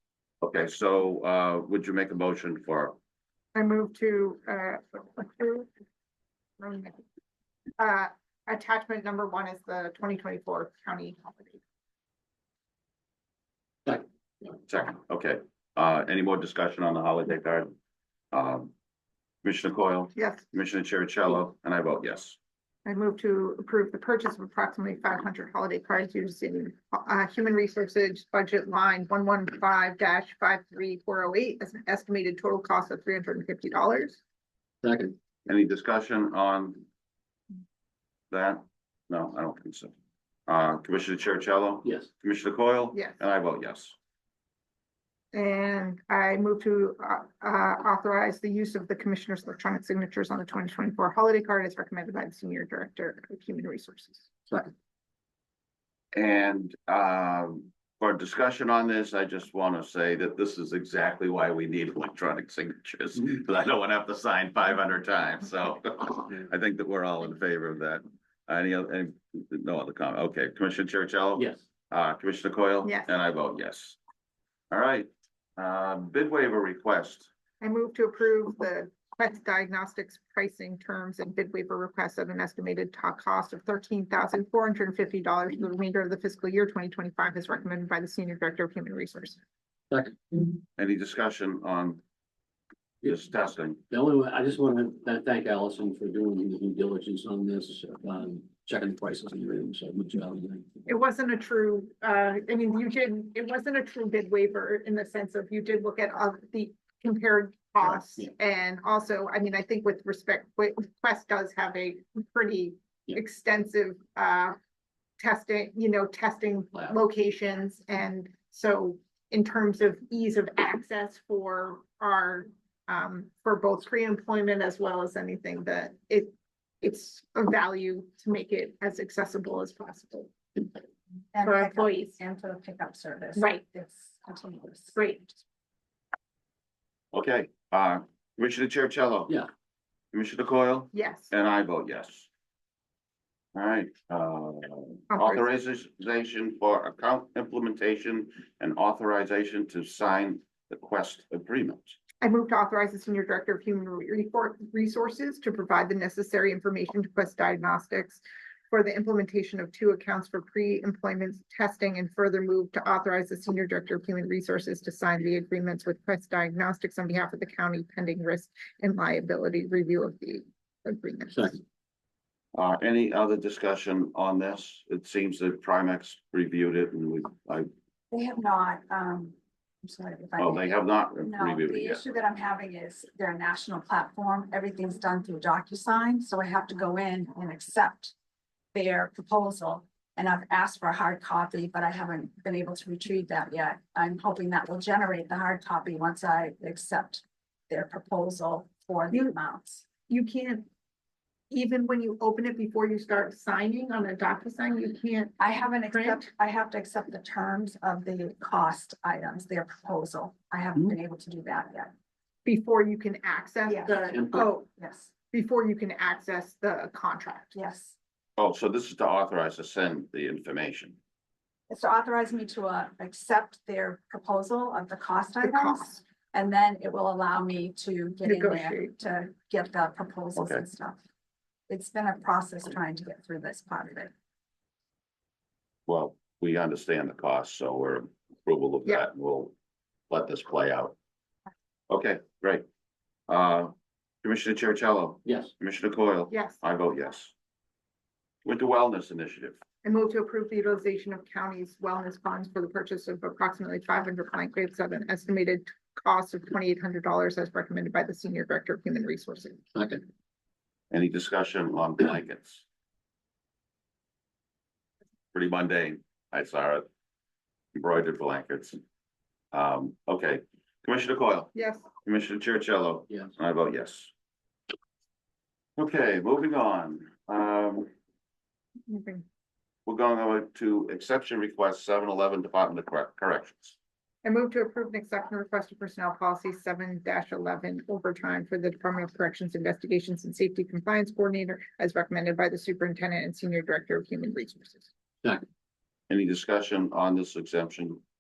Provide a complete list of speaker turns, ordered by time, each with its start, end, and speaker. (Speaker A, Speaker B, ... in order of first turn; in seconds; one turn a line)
Speaker A: 0.4-3.0
Speaker B: 3.5-5.7
Speaker B: 6.6-7.0
Speaker B: 7.8-11.6
Speaker A: 14.7-17.7
Speaker A: 18.3-18.7
Speaker A: 19.4-22.4
Speaker B: 20.1-20.5
Speaker B: 22.9-34.2
Speaker C: 34.8-35.2
Speaker A: 35.5-36.9
Speaker A: 38.3-39.9
Speaker A: 40.5-44.0
Speaker B: 42.9-43.2
Speaker B: 45.3-54.3
Speaker A: 56.1-74.0
Speaker C: 71.4-71.6
Speaker B: 72.8-73.1
Speaker A: 74.7-77.3
Speaker B: 77.6-89.4
Speaker C: 89.9-90.5
Speaker A: 90.8-92.0
Speaker A: 93.0-93.8
Speaker C: 93.9-100.8
Speaker B: 100.9-114.6
Speaker C: 107.8-108.3
Speaker B: 115.2-130.6
Speaker D: 131.3-134.9
Speaker B: 131.4-132.2
Speaker B: 133.4-133.6
Speaker B: 134.9-135.4
Speaker A: 137.1-139.4
Speaker A: 140.1-142.3
Speaker B: 140.9-141.3
Speaker A: 143.6-152.0
Speaker B: 145.1-145.4
Speaker B: 152.2-171.6
Speaker C: 171.3-171.6
Speaker A: 172.5-177.7
Speaker D: 178.1-188.1
Speaker A: 180.4-182.0
Speaker D: 188.7-199.9
Speaker B: 200.1-200.7
Speaker B: 201.5-205.4
Speaker D: 205.4-211.9
Speaker B: 205.9-206.2
Speaker B: 212.4-214.7
Speaker D: 213.7-215.1
Speaker C: 214.1-214.5
Speaker B: 215.3-217.6
Speaker D: 217.5-218.0
Speaker A: 218.4-221.0
Speaker D: 221.7-231.0
Speaker B: 225.4-226.0
Speaker B: 228.2-228.9
Speaker A: 230.4-230.6
Speaker D: 231.7-234.1
Speaker A: 235.9-239.6
Speaker A: 240.1-240.9
Speaker A: 241.9-242.7
Speaker A: 243.3-243.7
Speaker A: 244.2-247.3
Speaker C: 245.2-245.5
Speaker B: 246.3-246.6
Speaker A: 248.4-249.6
Speaker B: 249.8-259.6
Speaker C: 259.7-260.1
Speaker A: 260.9-262.6
Speaker A: 265.3-266.9
Speaker A: 267.8-268.8
Speaker A: 269.5-271.5
Speaker B: 271.5-271.9
Speaker A: 272.0-274.1
Speaker A: 275.8-277.9
Speaker B: 278.9-279.2
Speaker A: 279.9-283.8
Speaker B: 284.2-294.9
Speaker A: 296.1-298.0